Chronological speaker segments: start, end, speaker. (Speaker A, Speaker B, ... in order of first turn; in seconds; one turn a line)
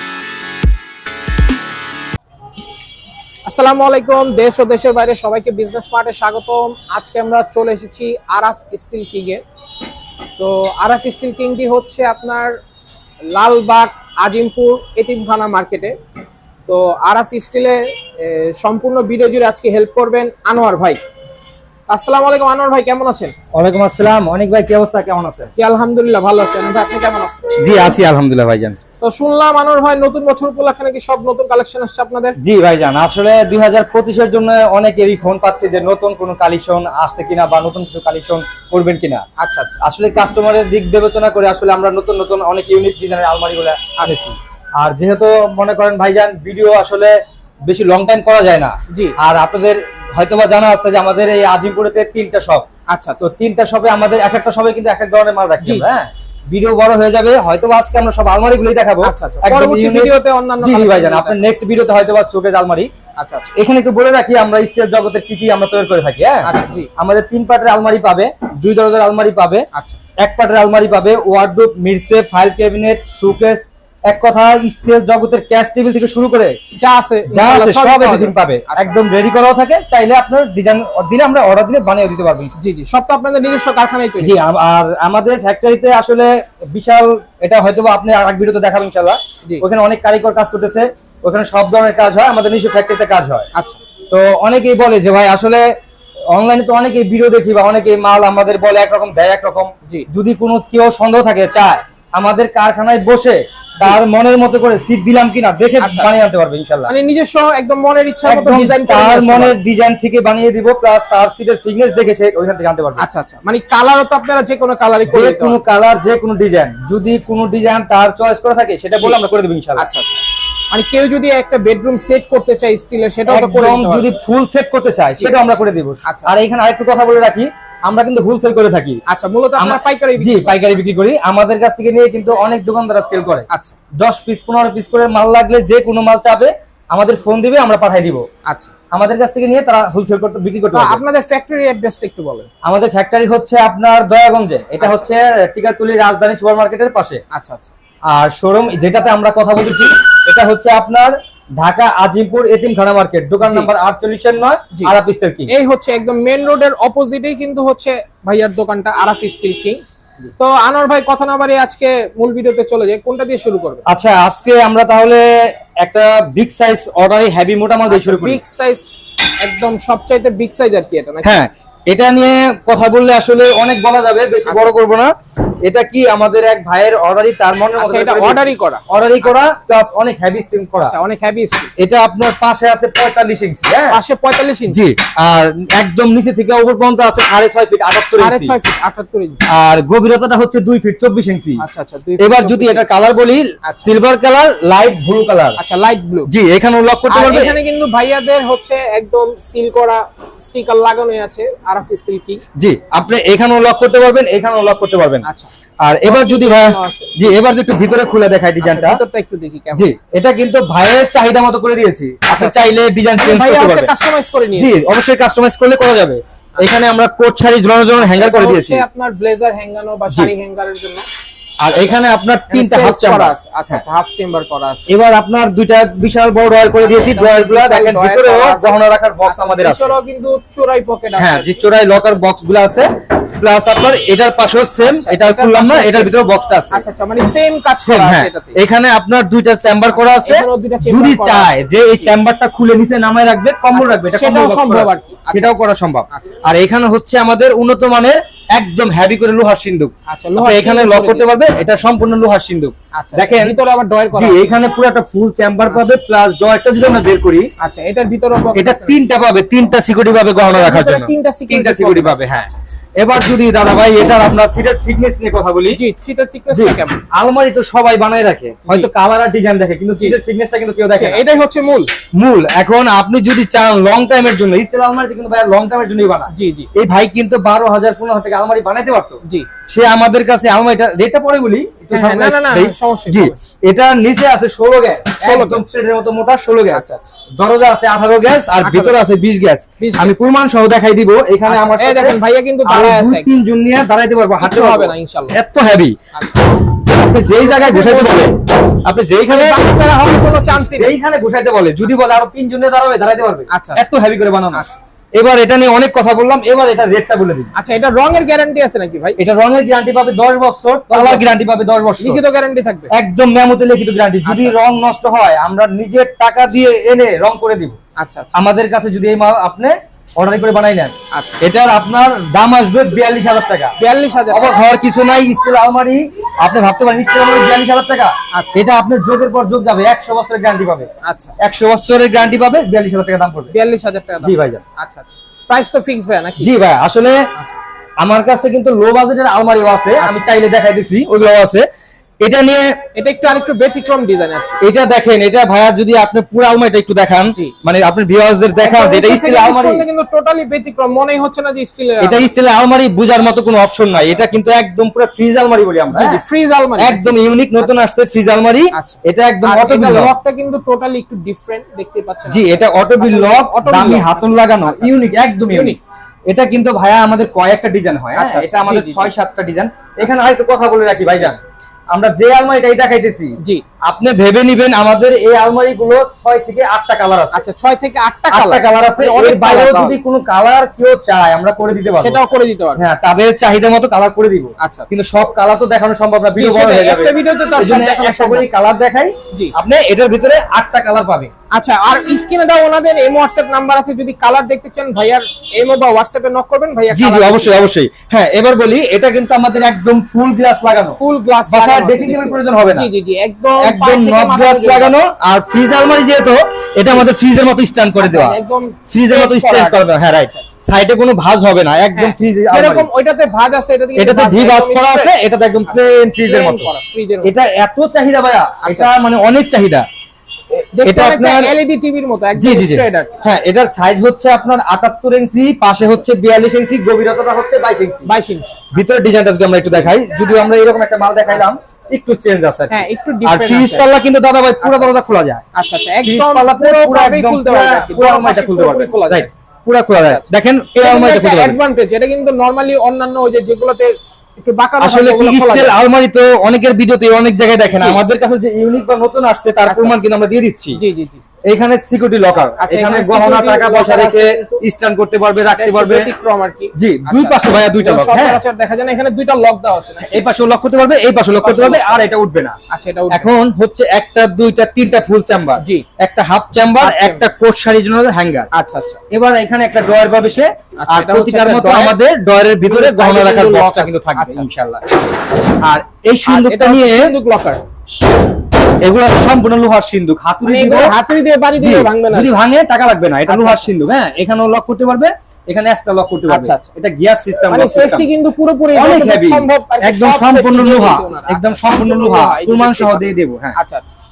Speaker A: 3.5-9.4
Speaker A: 10.4-12.6
Speaker A: 13.3-15.9
Speaker A: 16.7-21.0
Speaker A: 21.9-23.3
Speaker B: 23.5-25.5
Speaker A: 25.6-27.5
Speaker B: 27.6-28.8
Speaker A: 29.0-32.3
Speaker B: 32.4-39.2
Speaker A: 39.4-39.8
Speaker B: 39.8-47.1
Speaker A: 44.0-44.3
Speaker B: 47.7-52.7
Speaker A: 48.9-49.1
Speaker A: 52.9-53.2
Speaker B: 53.2-62.9
Speaker A: 59.0-61.5
Speaker A: 63.2-63.5
Speaker B: 63.5-69.7
Speaker A: 66.4-66.9
Speaker A: 69.7-70.0
Speaker B: 70.2-76.5
Speaker A: 76.8-79.0
Speaker B: 77.3-82.5
Speaker A: 82.6-84.4
Speaker B: 84.2-93.5
Speaker B: 94.1-95.6
Speaker B: 96.3-106.9
Speaker A: 105.8-106.1
Speaker A: 106.9-109.6
Speaker B: 108.2-113.0
Speaker A: 113.0-115.6
Speaker B: 115.1-119.9
Speaker A: 119.8-124.1
Speaker B: 123.3-129.0
Speaker A: 126.0-126.3
Speaker A: 129.1-130.8
Speaker B: 129.6-138.2
Speaker A: 133.5-133.8
Speaker A: 138.4-138.8
Speaker B: 138.9-141.0
Speaker A: 140.7-142.5
Speaker B: 142.6-147.2
Speaker A: 144.8-145.0
Speaker A: 147.3-147.7
Speaker B: 148.1-155.5
Speaker A: 153.4-153.7
Speaker A: 155.5-159.8
Speaker A: 160.4-163.8
Speaker B: 163.9-165.2
Speaker B: 165.8-168.4
Speaker A: 167.9-168.9
Speaker A: 169.4-171.4
Speaker B: 171.2-175.1
Speaker A: 174.4-174.8
Speaker B: 175.6-180.9
Speaker A: 177.8-179.6
Speaker A: 180.8-181.7
Speaker B: 181.8-184.0
Speaker A: 183.9-184.8
Speaker B: 184.7-188.6
Speaker A: 188.2-189.4
Speaker B: 189.5-191.6
Speaker A: 191.6-192.9
Speaker B: 192.2-195.6
Speaker A: 193.6-193.9
Speaker A: 195.6-196.3
Speaker B: 196.2-197.6
Speaker A: 197.1-202.4
Speaker B: 202.6-205.2
Speaker A: 205.2-205.5
Speaker B: 205.8-209.0
Speaker A: 206.1-207.3
Speaker A: 208.6-209.9
Speaker B: 209.7-213.9
Speaker A: 212.3-214.8
Speaker B: 214.5-218.8
Speaker A: 217.9-221.1
Speaker B: 221.6-223.8
Speaker A: 222.5-224.9
Speaker B: 224.9-229.9
Speaker A: 226.8-231.7
Speaker B: 231.2-236.8
Speaker A: 234.9-236.2
Speaker A: 236.7-238.6
Speaker B: 237.8-253.6
Speaker A: 239.9-242.1
Speaker A: 243.7-246.4
Speaker A: 250.1-251.5
Speaker A: 252.9-254.4
Speaker B: 254.1-257.5
Speaker A: 255.7-255.9
Speaker A: 257.6-259.0
Speaker B: 258.5-265.8
Speaker A: 260.3-262.6
Speaker A: 265.7-267.0
Speaker B: 266.5-271.2
Speaker A: 270.9-271.9
Speaker B: 272.1-295.9
Speaker A: 276.3-276.7
Speaker A: 281.9-283.4
Speaker A: 285.2-285.8
Speaker A: 286.7-287.1
Speaker A: 288.6-289.0
Speaker A: 289.8-290.3
Speaker A: 291.4-293.3
Speaker A: 294.4-295.4
Speaker A: 296.1-296.6
Speaker B: 296.7-299.6
Speaker A: 297.4-298.3
Speaker A: 299.3-300.9
Speaker B: 300.5-307.5
Speaker A: 303.5-303.9
Speaker A: 307.5-309.2
Speaker B: 309.2-312.2
Speaker A: 310.9-311.3
Speaker A: 312.0-312.9
Speaker B: 312.9-317.8
Speaker A: 314.2-314.7
Speaker A: 318.0-318.3
Speaker B: 318.3-323.7
Speaker A: 321.1-321.4
Speaker A: 323.8-324.7
Speaker B: 324.3-333.5
Speaker A: 328.3-328.6
Speaker A: 331.0-331.4
Speaker A: 333.5-336.5
Speaker B: 334.2-334.6
Speaker B: 336.4-337.2
Speaker B: 338.0-341.6
Speaker A: 340.0-340.3
Speaker B: 342.2-342.7
Speaker A: 342.9-344.6
Speaker B: 344.6-349.8
Speaker A: 348.6-352.3
Speaker B: 352.0-356.2
Speaker A: 353.9-354.4
Speaker A: 355.9-357.8
Speaker B: 356.8-360.1
Speaker A: 358.7-364.9
Speaker B: 362.3-365.8
Speaker A: 365.5-365.8
Speaker B: 366.3-371.4
Speaker A: 368.1-369.1
Speaker A: 371.1-371.3
Speaker B: 371.9-373.3
Speaker B: 373.9-377.4
Speaker A: 377.3-380.0
Speaker B: 378.3-382.2
Speaker A: 381.7-382.8
Speaker B: 382.8-391.3
Speaker A: 384.6-384.9
Speaker A: 386.3-388.5
Speaker A: 391.5-397.7
Speaker B: 396.9-402.9
Speaker A: 400.9-404.9
Speaker B: 403.6-408.4
Speaker A: 408.0-410.5
Speaker B: 408.9-412.9
Speaker A: 411.9-417.3
Speaker B: 413.9-416.7
Speaker B: 417.2-419.8
Speaker A: 418.6-418.9
Speaker B: 420.6-421.5
Speaker A: 420.7-423.1
Speaker B: 422.4-428.1
Speaker A: 428.1-428.7
Speaker B: 428.7-435.4
Speaker A: 432.7-433.9
Speaker A: 434.6-434.9
Speaker A: 435.5-439.3
Speaker B: 436.0-441.6
Speaker A: 439.9-445.8
Speaker B: 444.8-450.8
Speaker A: 449.6-450.0
Speaker A: 450.7-451.2
Speaker B: 451.5-456.1
Speaker A: 452.6-454.6
Speaker A: 455.5-460.2
Speaker B: 456.7-458.4
Speaker B: 460.1-462.6
Speaker A: 461.4-462.1
Speaker A: 462.7-463.3
Speaker B: 463.1-468.5
Speaker A: 465.6-465.9
Speaker A: 466.8-467.3
Speaker A: 468.5-469.0
Speaker B: 469.1-474.8
Speaker A: 470.8-472.0
Speaker A: 472.6-474.4
Speaker B: 475.6-477.1
Speaker A: 476.2-477.6
Speaker B: 478.8-481.0
Speaker A: 480.4-482.3
Speaker B: 481.6-488.1
Speaker A: 483.3-483.7
Speaker A: 486.3-486.7
Speaker A: 487.5-493.9
Speaker B: 488.7-493.6